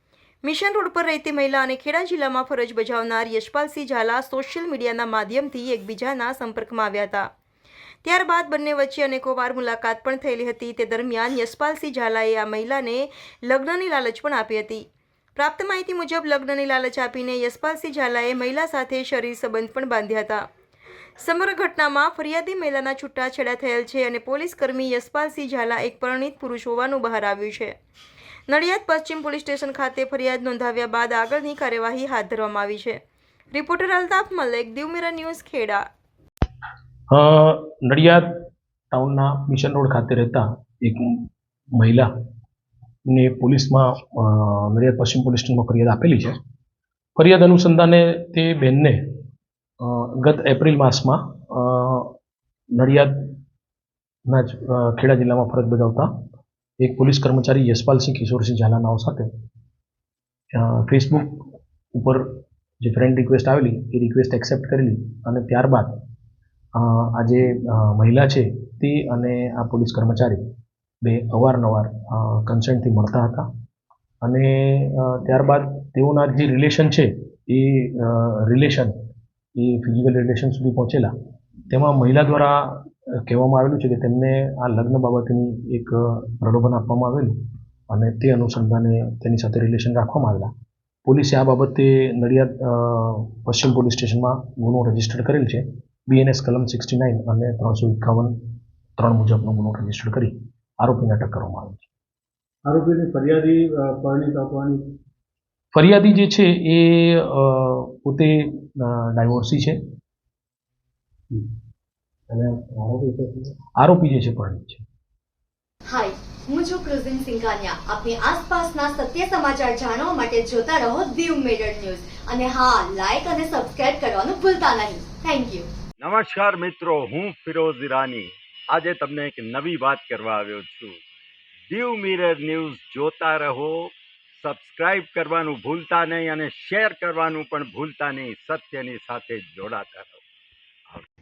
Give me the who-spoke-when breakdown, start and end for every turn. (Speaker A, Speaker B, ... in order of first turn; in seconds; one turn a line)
Speaker A: 0.4-7.3
Speaker A: 8.0-14.8
Speaker A: 15.4-20.4
Speaker A: 21.2-27.7
Speaker A: 28.5-33.0
Speaker A: 33.5-35.8
Speaker B: 37.1-38.3
Speaker B: 38.9-41.2
Speaker B: 41.8-42.1
Speaker B: 43.1-46.4
Speaker B: 47.1-49.0
Speaker B: 49.8-52.1
Speaker B: 52.7-53.3
Speaker B: 54.3-56.1
Speaker B: 56.8-59.3
Speaker B: 60.5-61.4
Speaker B: 61.9-66.0
Speaker B: 66.8-70.4
Speaker B: 71.0-73.5
Speaker B: 74.2-79.0
Speaker B: 79.6-81.1
Speaker B: 81.7-87.3
Speaker B: 87.9-90.5
Speaker B: 91.0-98.3
Speaker B: 99.0-101.9
Speaker C: 102.7-104.8
Speaker B: 105.7-109.8
Speaker B: 112.3-114.8
Speaker D: 115.9-125.7
Speaker E: 126.0-131.0
Speaker E: 131.7-140.2